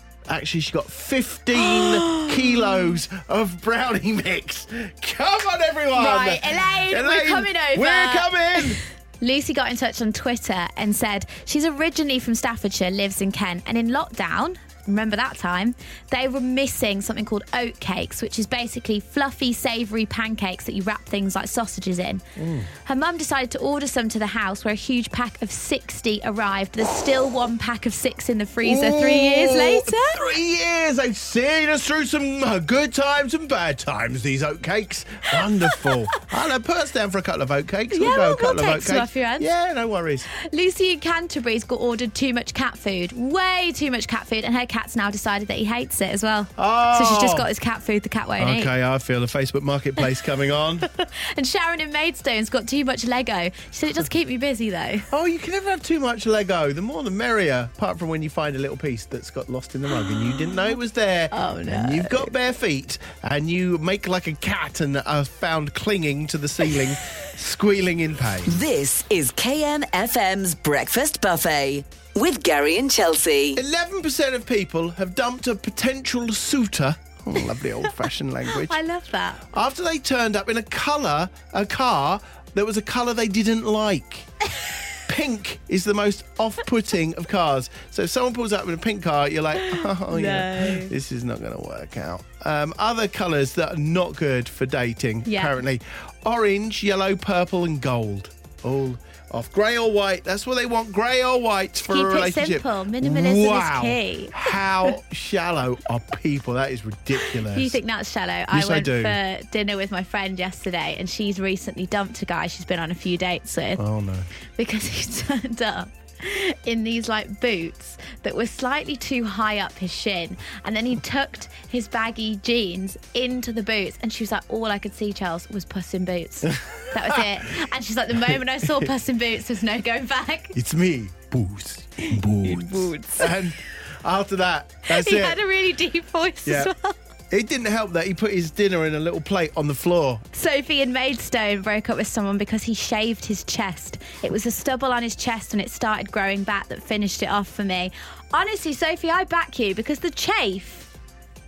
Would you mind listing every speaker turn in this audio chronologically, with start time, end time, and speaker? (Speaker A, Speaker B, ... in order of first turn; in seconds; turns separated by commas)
Speaker A: 0.3-8.8, Speaker B: 1.6-3.0, Speaker B: 5.9-22.2, Speaker A: 22.4-22.7, Speaker B: 22.8-30.2, Speaker A: 28.6-40.3, Speaker B: 37.9-39.5, Speaker B: 40.3-48.7, Speaker A: 46.6-47.5, Speaker A: 48.4-50.9, Speaker B: 50.9-55.1, Speaker A: 55.1-68.6, Speaker B: 60.2-60.8, Speaker B: 61.3-62.4, Speaker C: 68.5-73.6, Speaker A: 73.6-78.8, Speaker B: 78.6-79.4, Speaker A: 79.5-84.3, Speaker A: 85.1-107.8, Speaker B: 89.6-90.9, Speaker B: 95.3-95.6, Speaker B: 101.9-104.9, Speaker B: 107.4-113.8, Speaker A: 108.5-109.2, Speaker A: 113.8-114.3, Speaker B: 114.6-130.6, Speaker A: 126.8-127.2, Speaker A: 130.5-135.4, Speaker B: 132.4-133.5, Speaker B: 134.9-137.0, Speaker A: 136.4-136.7, Speaker A: 137.3-140.2, Speaker B: 140.3-150.9